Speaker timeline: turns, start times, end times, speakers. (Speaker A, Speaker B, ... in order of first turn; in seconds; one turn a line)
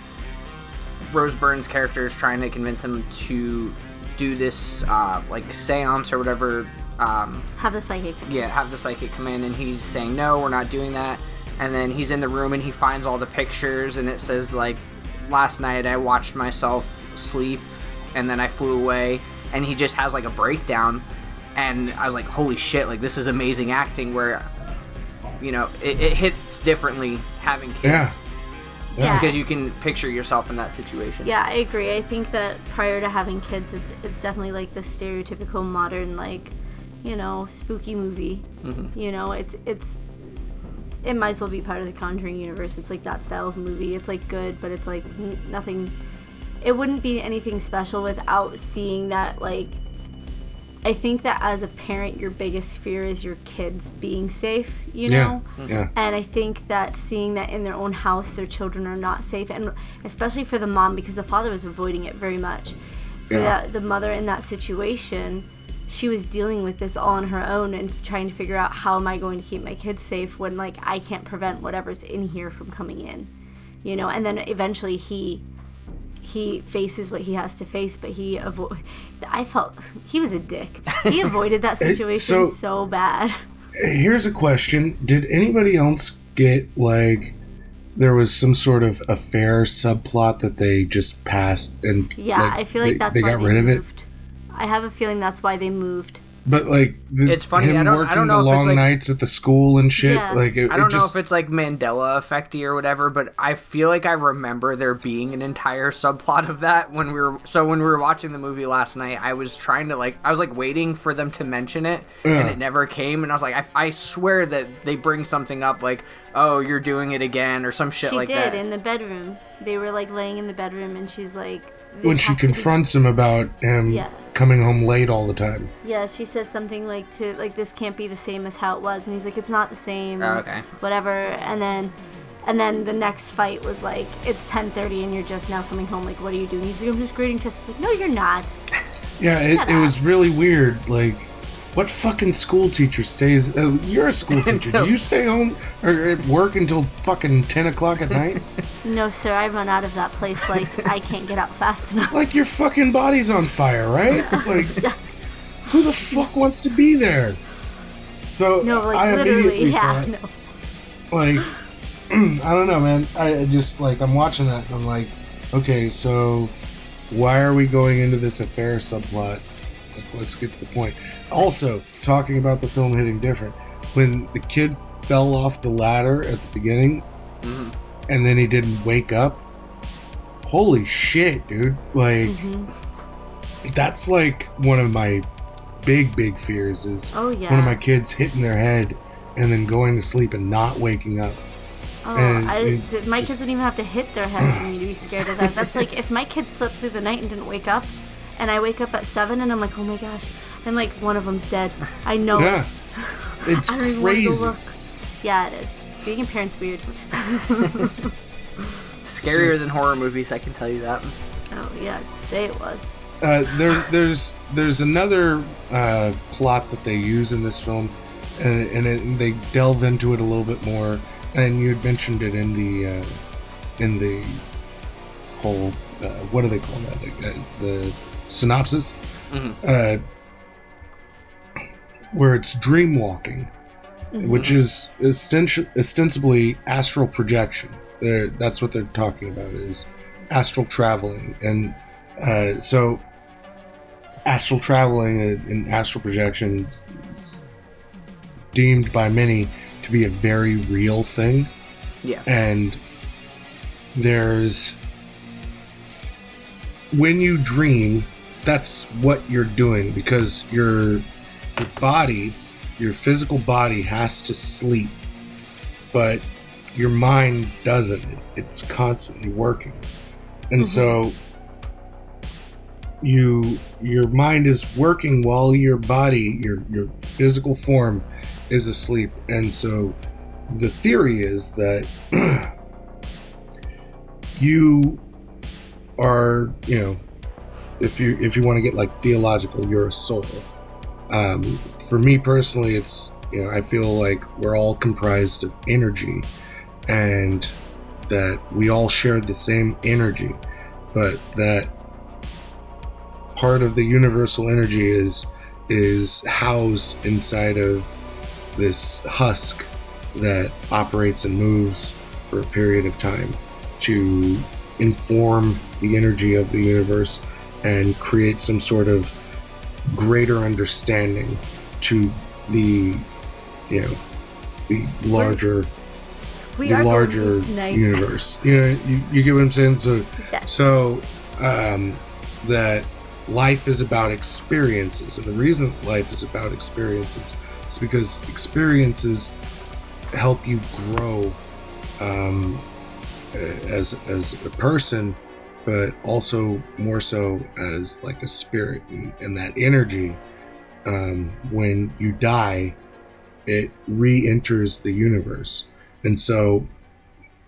Speaker A: 1.1-7.5
Speaker B: 7.6-8.4
Speaker A: 8.2-21.0
Speaker A: 21.6-24.5
Speaker A: 25.4-28.2
Speaker C: 27.8-28.1
Speaker C: 28.9-29.2
Speaker B: 29.0-29.4
Speaker A: 29.0-31.3
Speaker B: 31.2-40.0
Speaker A: 38.6-38.9
Speaker B: 41.0-45.9
Speaker B: 46.6-49.8
Speaker B: 50.8-62.8
Speaker C: 55.1-55.9
Speaker B: 63.3-73.3
Speaker C: 63.3-63.5
Speaker B: 73.8-75.4
Speaker B: 76.2-83.4
Speaker C: 81.8-82.5
Speaker C: 83.8-87.4
Speaker C: 87.9-93.8
Speaker B: 92.2-96.2
Speaker C: 96.4-101.1
Speaker A: 97.2-98.9
Speaker B: 100.0-100.4
Speaker A: 100.7-118.6
Speaker C: 112.2-112.6
Speaker B: 118.0-122.8
Speaker C: 122.0-125.7
Speaker B: 123.9-124.2
Speaker B: 125.8-138.6
Speaker A: 130.2-130.7
Speaker C: 139.2-148.4
Speaker B: 139.5-139.9
Speaker A: 144.4-144.9
Speaker B: 148.8-152.2
Speaker C: 152.1-154.8
Speaker B: 154.1-155.1
Speaker A: 154.4-154.7
Speaker C: 155.7-157.4
Speaker C: 158.3-160.1
Speaker B: 158.6-160.3
Speaker C: 161.1-161.5
Speaker C: 162.1-166.5
Speaker C: 167.1-177.0
Speaker A: 177.4-177.7
Speaker C: 178.1-179.4
Speaker C: 180.4-182.4
Speaker B: 182.2-182.7
Speaker C: 183.6-185.3
Speaker C: 185.8-191.4
Speaker B: 187.1-187.8
Speaker B: 192.0-208.0
Speaker C: 192.1-193.4
Speaker C: 194.4-194.7
Speaker C: 202.3-202.7
Speaker C: 203.3-204.5
Speaker A: 209.0-211.1
Speaker C: 209.2-209.5
Speaker B: 211.5-212.9
Speaker C: 213.2-223.2
Speaker C: 223.8-224.4
Speaker C: 225.3-229.0
Speaker A: 229.3-229.6
Speaker C: 229.6-230.0
Speaker C: 232.1-233.5
Speaker B: 234.1-234.5
Speaker C: 234.2-243.0
Speaker A: 234.3-234.6
Speaker C: 244.2-247.4
Speaker C: 248.5-251.5
Speaker C: 252.2-252.8
Speaker C: 253.9-254.8
Speaker C: 256.9-265.0
Speaker C: 265.9-269.9
Speaker C: 270.5-271.2
Speaker B: 270.6-270.9
Speaker C: 273.0-282.5
Speaker C: 284.3-285.0
Speaker C: 286.0-287.0
Speaker C: 287.8-290.5
Speaker C: 291.1-296.3
Speaker C: 296.9-300.4
Speaker C: 300.9-301.7
Speaker C: 303.3-308.0
Speaker C: 308.5-319.1
Speaker C: 319.9-323.1
Speaker C: 323.7-324.0
Speaker C: 324.7-325.7
Speaker B: 325.1-325.4
Speaker B: 326.6-328.0
Speaker C: 326.6-339.3
Speaker B: 330.2-330.5
Speaker C: 340.1-341.4
Speaker C: 342.0-342.6
Speaker C: 343.3-350.2
Speaker C: 350.8-352.8
Speaker C: 353.4-356.7